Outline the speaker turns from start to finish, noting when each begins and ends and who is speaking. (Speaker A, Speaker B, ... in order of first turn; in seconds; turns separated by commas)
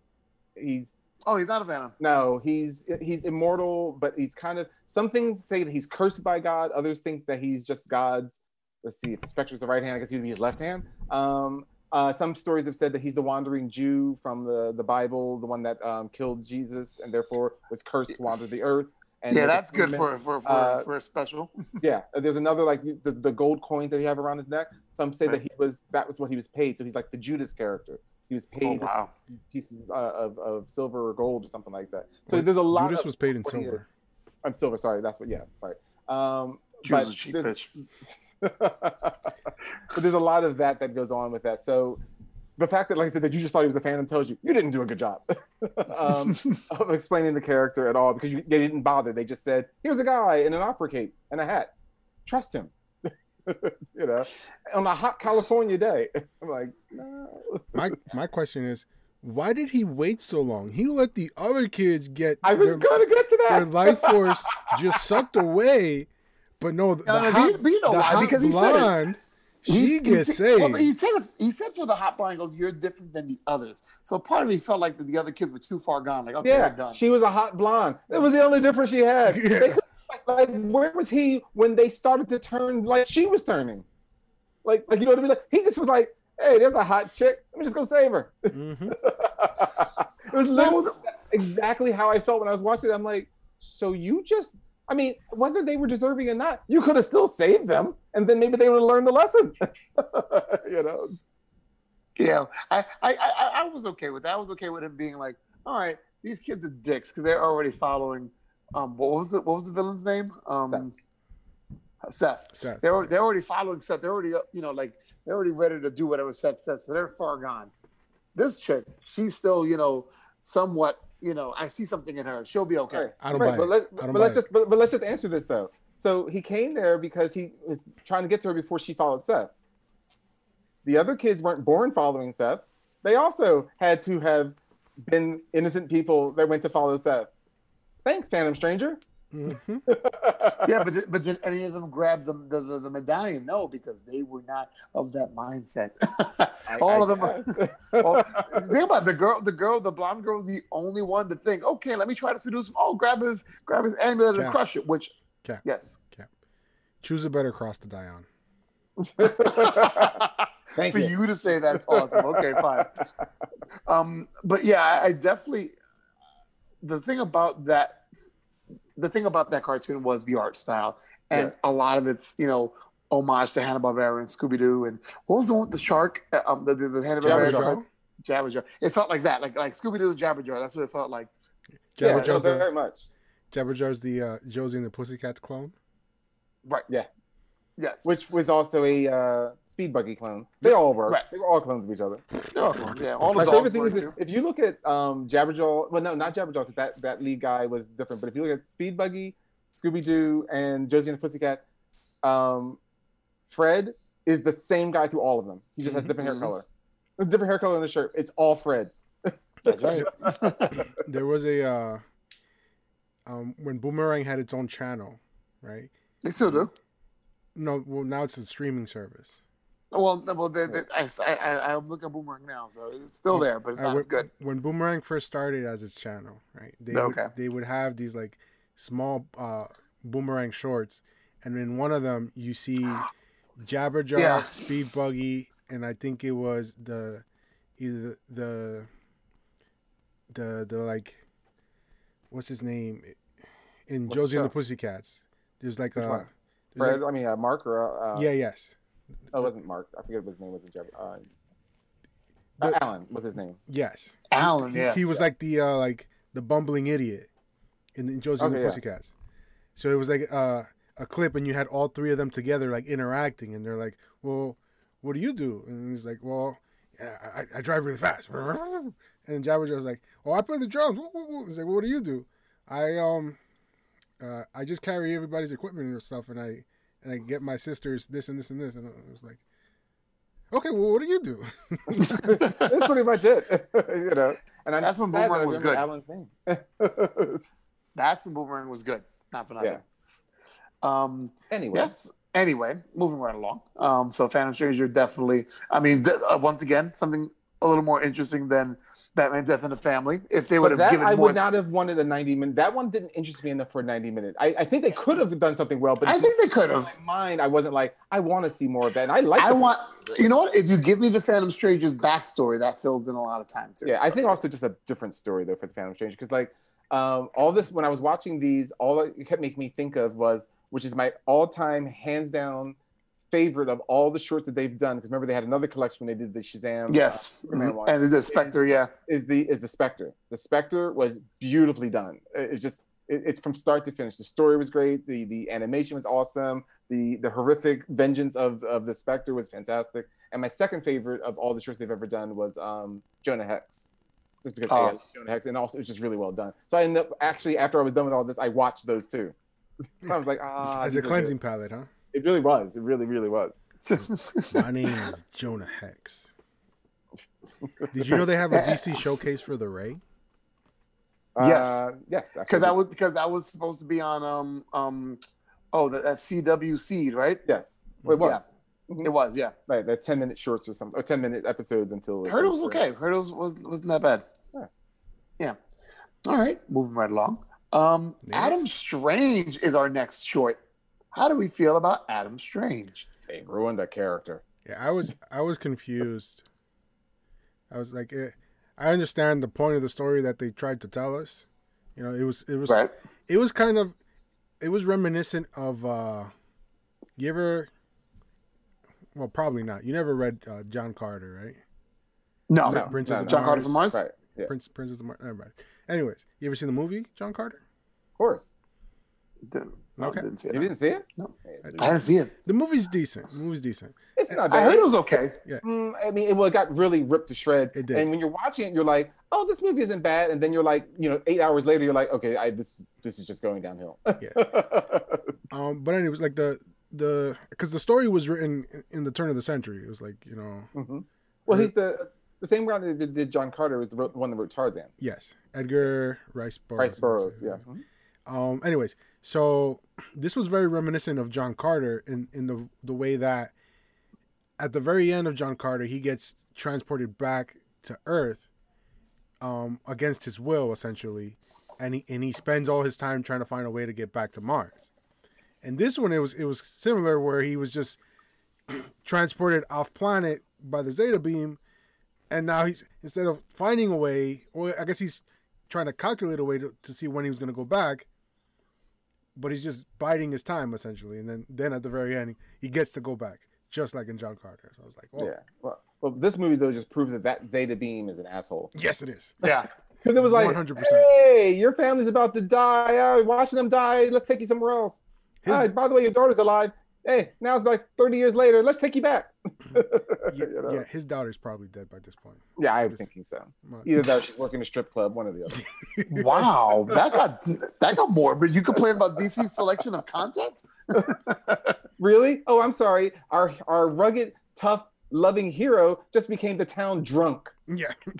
Speaker A: 0.6-0.9, Speaker B: 1.2-1.9, Speaker A: 2.0-20.9, Speaker B: 19.3-21.5, Speaker A: 21.8-33.8, Speaker B: 28.6-29.1, Speaker C: 32.3-33.9, Speaker A: 34.4-37.5, Speaker B: 36.8-37.7, Speaker A: 38.4-39.3, Speaker A: 39.9-42.0, Speaker A: 42.6-51.7, Speaker A: 52.2-58.0, Speaker C: 57.7-62.9, Speaker A: 62.4-65.0, Speaker C: 63.5-66.1, Speaker C: 66.6-70.9, Speaker B: 67.0-68.9, Speaker B: 69.7-77.0, Speaker A: 76.4-83.8, Speaker C: 79.3-79.8, Speaker A: 84.6-101.1, Speaker C: 88.5-89.0, Speaker B: 90.5-91.0, Speaker B: 102.2-110.9, Speaker B: 112.0-117.7, Speaker C: 112.6-113.0, Speaker B: 118.3-123.1, Speaker A: 122.9-129.5, Speaker C: 123.2-124.4, Speaker A: 130.8-137.3, Speaker A: 138.0-139.0, Speaker C: 139.3-139.8, Speaker A: 139.9-140.7, Speaker B: 140.6-156.0, Speaker A: 146.7-148.6, Speaker C: 155.4-156.3, Speaker C: 157.0-158.2, Speaker A: 159.0-161.2, Speaker B: 159.2-163.0, Speaker A: 161.7-163.0, Speaker B: 163.8-165.7, Speaker B: 166.8-168.0, Speaker B: 168.9-181.3, Speaker A: 177.2-177.7, Speaker C: 177.2-177.8, Speaker C: 181.9-182.7, Speaker A: 182.0-183.0, Speaker B: 182.0-182.4, Speaker C: 183.5-185.7, Speaker B: 187.8-188.0, Speaker A: 188.0-192.2, Speaker B: 192.5-194.1, Speaker C: 192.9-193.6, Speaker A: 193.3-201.6, Speaker A: 202.2-202.8, Speaker A: 203.5-206.6, Speaker B: 206.2-206.5, Speaker A: 207.2-210.3, Speaker B: 209.6-210.8, Speaker C: 210.9-212.0, Speaker C: 213.2-216.7, Speaker B: 216.2-216.7, Speaker C: 217.5-219.4, Speaker B: 219.9-224.3, Speaker C: 223.3-237.2, Speaker B: 226.9-227.3, Speaker B: 234.1-234.6, Speaker C: 237.8-238.9, Speaker C: 240.3-241.2, Speaker C: 242.3-243.2, Speaker C: 243.9-247.0, Speaker A: 244.1-244.5, Speaker A: 246.0-246.3, Speaker A: 246.8-248.3, Speaker C: 248.1-248.7, Speaker A: 249.3-251.2, Speaker A: 252.6-253.6, Speaker C: 253.7-257.3, Speaker B: 254.3-255.2, Speaker C: 257.9-259.1, Speaker A: 258.4-258.8, Speaker C: 259.8-273.4, Speaker C: 274.2-279.4, Speaker C: 280.5-282.2, Speaker A: 281.9-287.4, Speaker B: 282.4-282.7, Speaker B: 284.8-285.8, Speaker B: 287.9-289.8, Speaker B: 290.8-301.4, Speaker A: 291.5-291.9, Speaker A: 300.6-309.7, Speaker B: 306.0-306.9, Speaker B: 309.4-314.2, Speaker A: 313.8-322.8, Speaker A: 323.3-343.9, Speaker B: 326.9-328.9, Speaker A: 344.4-349.3, Speaker B: 344.7-345.0, Speaker A: 350.0-351.3, Speaker C: 350.8-351.9, Speaker A: 352.1-353.6, Speaker B: 353.8-355.0, Speaker C: 354.5-356.3, Speaker C: 357.9-360.0, Speaker B: 358.1-359.1, Speaker A: 361.4-362.7, Speaker B: 361.4-361.8, Speaker B: 362.5-365.2, Speaker B: 365.7-367.4, Speaker A: 367.4-369.1, Speaker B: 368.2-368.4, Speaker B: 369.0-369.5, Speaker A: 369.7-372.9, Speaker B: 372.2-374.2, Speaker B: 376.2-380.6, Speaker C: 378.2-378.7, Speaker B: 381.1-383.1, Speaker A: 383.3-384.4, Speaker C: 384.6-386.4, Speaker C: 387.7-393.9, Speaker C: 394.6-396.3, Speaker C: 397.1-397.7, Speaker C: 399.1-401.6, Speaker B: 402.5-404.0, Speaker C: 402.6-403.9, Speaker A: 402.6-404.5, Speaker C: 404.4-407.6, Speaker A: 408.2-408.5, Speaker B: 409.4-412.3, Speaker C: 410.0-410.2, Speaker A: 410.5-412.0, Speaker C: 411.6-414.0, Speaker A: 414.1-414.9, Speaker B: 414.5-415.4, Speaker A: 415.6-425.3, Speaker C: 417.7-418.1, Speaker C: 424.2-424.4, Speaker C: 425.5-430.7, Speaker A: 430.7-434.9, Speaker C: 435.0-437.6, Speaker A: 436.8-437.8, Speaker C: 438.2-443.5, Speaker C: 444.6-448.5, Speaker C: 449.4-454.9, Speaker C: 455.6-458.0, Speaker C: 458.7-461.6, Speaker C: 462.3-468.1, Speaker C: 469.3-475.3, Speaker A: 475.2-478.7, Speaker C: 478.7-479.4, Speaker B: 479.4-479.7, Speaker A: 480.0-490.8, Speaker C: 480.2-481.1, Speaker C: 485.4-485.7, Speaker C: 490.3-493.1, Speaker A: 492.6-495.6, Speaker C: 493.6-494.1, Speaker C: 495.6-496.5, Speaker B: 496.1-501.7, Speaker A: 502.0-507.5, Speaker C: 507.7-508.0